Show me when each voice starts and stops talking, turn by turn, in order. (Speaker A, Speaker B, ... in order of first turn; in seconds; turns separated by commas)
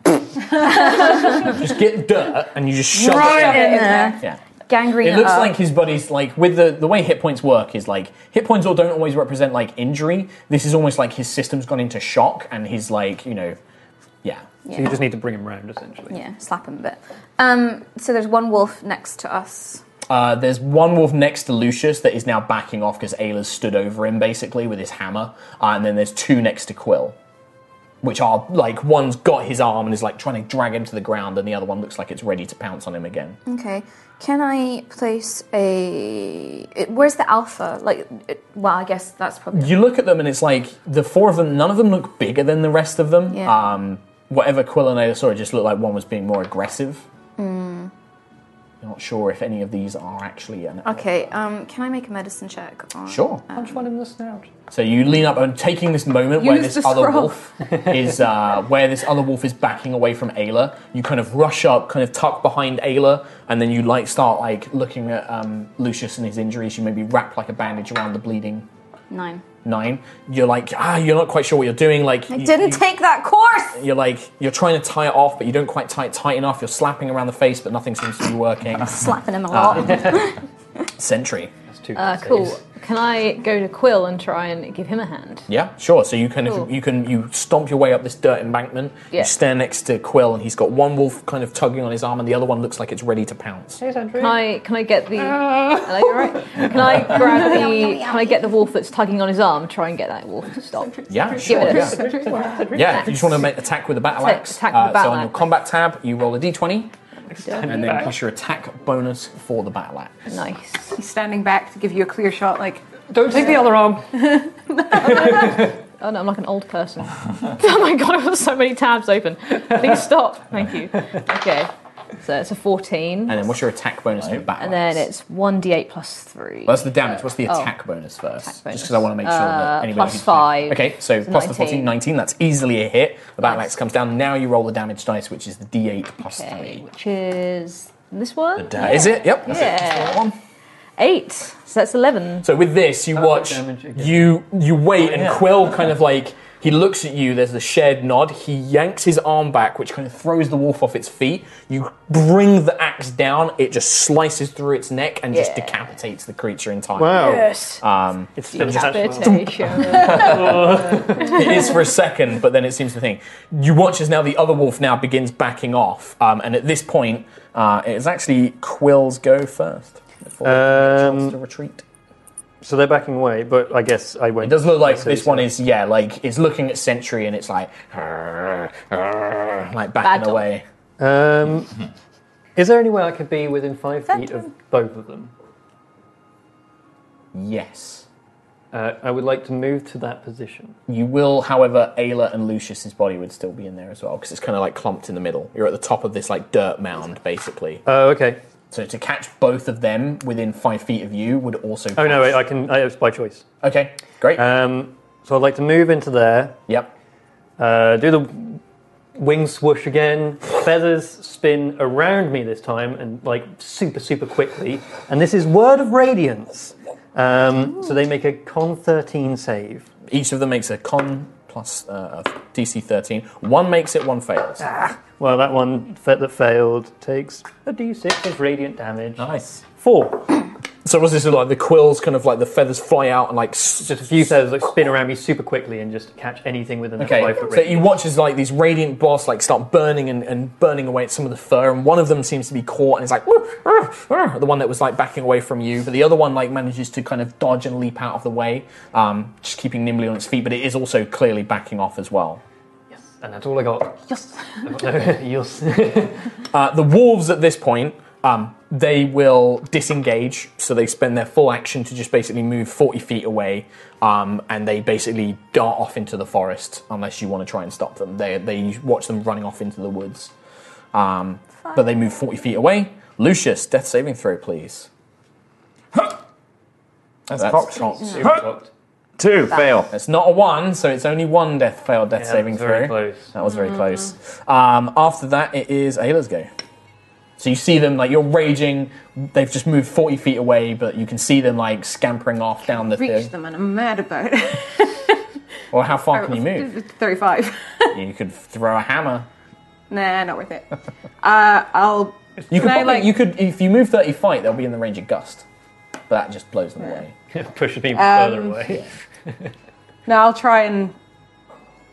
Speaker A: 0.6-1.6, Speaker B: 1.4-4.4, Speaker C: 2.9-4.2, Speaker A: 3.1-5.5, Speaker B: 5.0-13.6, Speaker A: 14.7-14.9, Speaker D: 14.7-16.2, Speaker A: 16.1-19.8, Speaker B: 20.1-27.2, Speaker B: 28.0-33.4, Speaker A: 33.5-39.8, Speaker B: 39.5-47.0, Speaker A: 43.3-43.6, Speaker A: 47.4-47.9, Speaker B: 48.8-51.1, Speaker A: 50.9-53.6, Speaker B: 53.1-53.4, Speaker D: 53.5-54.5, Speaker B: 54.7-68.7, Speaker C: 56.4-57.4, Speaker A: 69.1-69.4, Speaker B: 69.6-72.8, Speaker A: 72.3-73.8, Speaker B: 73.8-80.3, Speaker A: 78.8-80.4, Speaker B: 81.0-81.5, Speaker D: 81.7-82.6, Speaker E: 81.9-85.5, Speaker B: 85.5-93.8, Speaker E: 86.4-86.7, Speaker D: 93.8-94.4, Speaker E: 94.2-103.3, Speaker A: 96.9-98.7, Speaker B: 101.1-102.2, Speaker C: 101.2-102.5, Speaker D: 101.6-103.5, Speaker B: 102.7-106.9, Speaker E: 104.1-105.5, Speaker D: 107.3-108.1, Speaker E: 107.4-108.1, Speaker B: 107.6-110.1, Speaker E: 110.3-111.0, Speaker C: 111.0-113.5, Speaker D: 113.1-114.2, Speaker C: 114.1-115.6, Speaker D: 114.9-115.8, Speaker E: 114.9-123.5, Speaker B: 123.3-125.1, Speaker F: 124.2-124.5, Speaker E: 124.6-127.7, Speaker B: 126.7-136.8, Speaker E: 128.4-131.9, Speaker E: 133.4-133.7, Speaker E: 136.2-140.3, Speaker F: 138.6-139.7, Speaker B: 138.8-140.3, Speaker E: 141.0-142.5, Speaker B: 142.4-171.8, Speaker D: 143.1-144.4, Speaker F: 145.1-145.4, Speaker E: 155.3-155.8, Speaker D: 157.0-157.5, Speaker E: 157.2-157.8, Speaker D: 158.4-161.5, Speaker E: 158.5-160.6, Speaker E: 161.2-161.8, Speaker D: 170.4-171.4, Speaker D: 172.6-175.5, Speaker B: 174.4-180.7, Speaker E: 180.0-180.4, Speaker D: 181.0-181.8, Speaker D: 182.6-185.3, Speaker B: 187.3-188.1, Speaker D: 188.7-190.8, Speaker B: 190.9-197.8, Speaker D: 197.9-198.4, Speaker B: 198.7-202.4, Speaker D: 201.9-203.4, Speaker B: 203.6-204.4, Speaker D: 204.3-206.6, Speaker D: 207.6-208.6, Speaker D: 209.2-219.9, Speaker B: 220.1-224.7, Speaker D: 224.6-230.3, Speaker F: 229.2-229.7, Speaker B: 230.8-234.4, Speaker D: 233.9-238.0, Speaker B: 237.0-252.4, Speaker D: 252.9-256.3, Speaker B: 256.5-270.3, Speaker B: 270.9-274.9, Speaker F: 277.3-278.5, Speaker B: 277.4-277.7, Speaker A: 277.8-278.2, Speaker D: 278.1-278.7, Speaker F: 279.2-279.9, Speaker B: 279.9-286.5, Speaker D: 282.2-283.3, Speaker B: 287.4-293.3, Speaker C: 293.0-295.2, Speaker B: 295.7-296.7, Speaker C: 296.1-298.0, Speaker B: 297.9-299.3, Speaker C: 299.9-300.7, Speaker C: 301.2-303.1, Speaker B: 302.5-305.4, Speaker B: 306.1-307.1, Speaker D: 307.3-309.5, Speaker C: 307.9-308.6, Speaker C: 310.1-310.9